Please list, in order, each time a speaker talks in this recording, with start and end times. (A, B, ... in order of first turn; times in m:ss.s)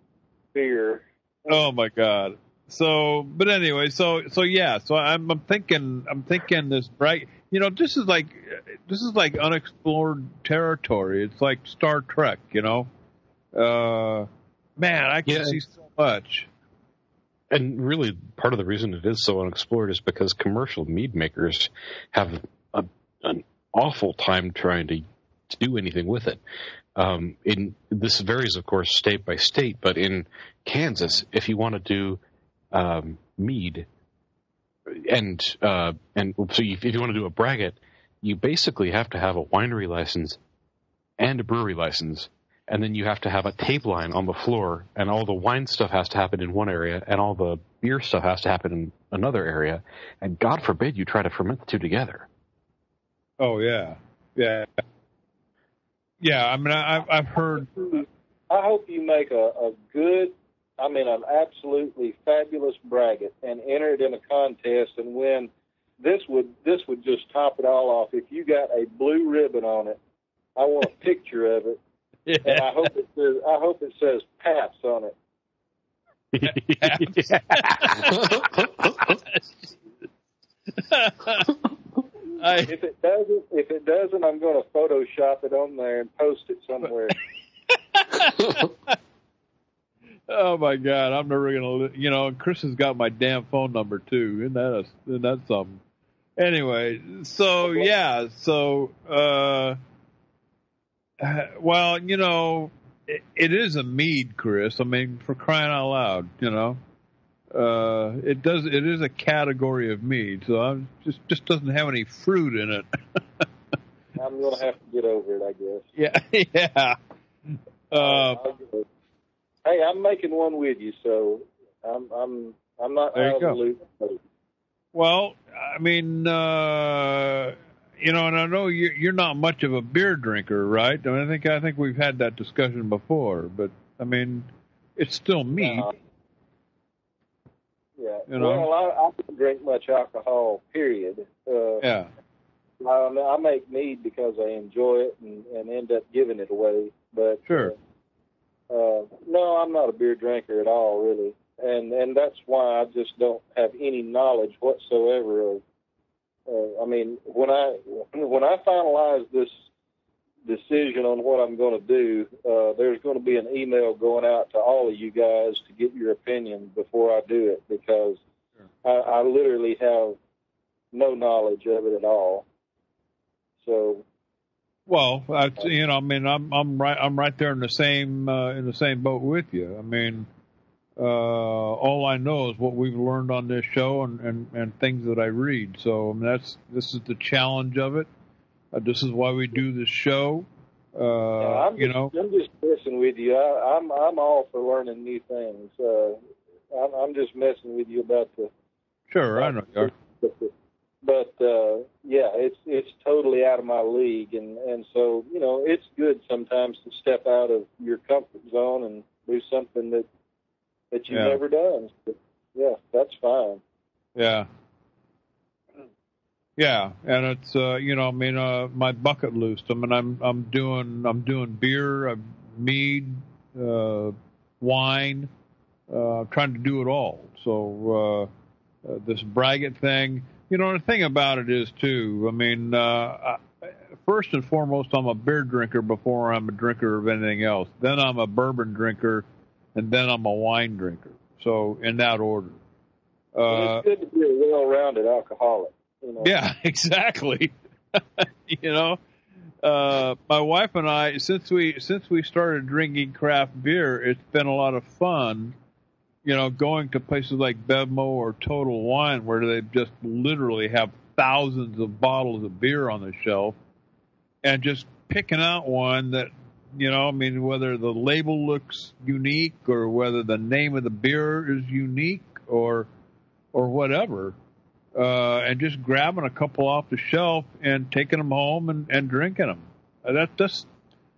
0:00.5-0:01.6 A
0:01.5-0:12.9 B
0:13.5-0:16.5 B
0:15.2-0:15.6 C
0:17.5-0:26.4 C
0:27.0-0:32.2 C
0:32.7-0:33.9 C
0:34.9-0:40.4 C
0:41.2-0:52.3 C
0:53.4-0:54.7 B
0:56.2-0:58.0 B
0:58.5-1:10.0 A
1:10.6-1:11.8 A
1:12.3-1:12.9 B
1:12.4-1:15.1 A
1:16.3-1:18.1 C
1:16.4-1:19.4 B
1:20.8-1:21.6 B
1:22.4-1:22.7 B
1:22.6-1:27.2 A
1:27.7-1:28.9 B
1:30.3-1:35.8 B
1:36.4-1:39.8 B
1:41.2-1:46.8 B
1:47.5-1:53.4 B
1:54.2-1:55.9 A
1:56.0-1:57.0 B
1:57.9-1:58.4 B
1:57.9-1:58.8 A
1:59.6-2:04.2 A
2:03.2-2:03.6 B
2:04.9-2:15.9 B
2:15.6-2:15.9 A
2:18.0-2:21.8 A
2:18.3-2:18.7 B
2:21.8-2:22.1 B
2:22.8-2:27.7 A
2:27.5-2:27.7 B
2:28.7-2:35.6 A
2:36.5-2:39.5 A
2:40.4-2:48.2 A
2:48.8-2:50.2 A
2:50.9-2:52.4 A
2:53.6-2:54.0 A
2:54.9-3:00.3 B
3:01.0-3:08.1 B
3:08.7-3:12.1 B
3:11.4-3:16.2 A
3:16.7-3:18.5 A
3:19.1-3:19.9 B
3:19.4-3:20.5 A
3:21.0-3:30.0 A
3:30.9-3:33.6 A
3:31.1-3:31.4 B
3:34.2-3:34.5 B
3:36.6-3:45.3 B
3:45.9-3:48.3 B
3:48.8-4:02.6 B
4:03.3-4:03.8 B
4:03.5-4:06.3 A
4:06.2-4:09.0 B
4:09.6-4:15.6 B
4:16.2-4:23.6 B
4:24.4-4:32.9 B
4:33.5-4:34.4 B
4:34.9-4:40.7 B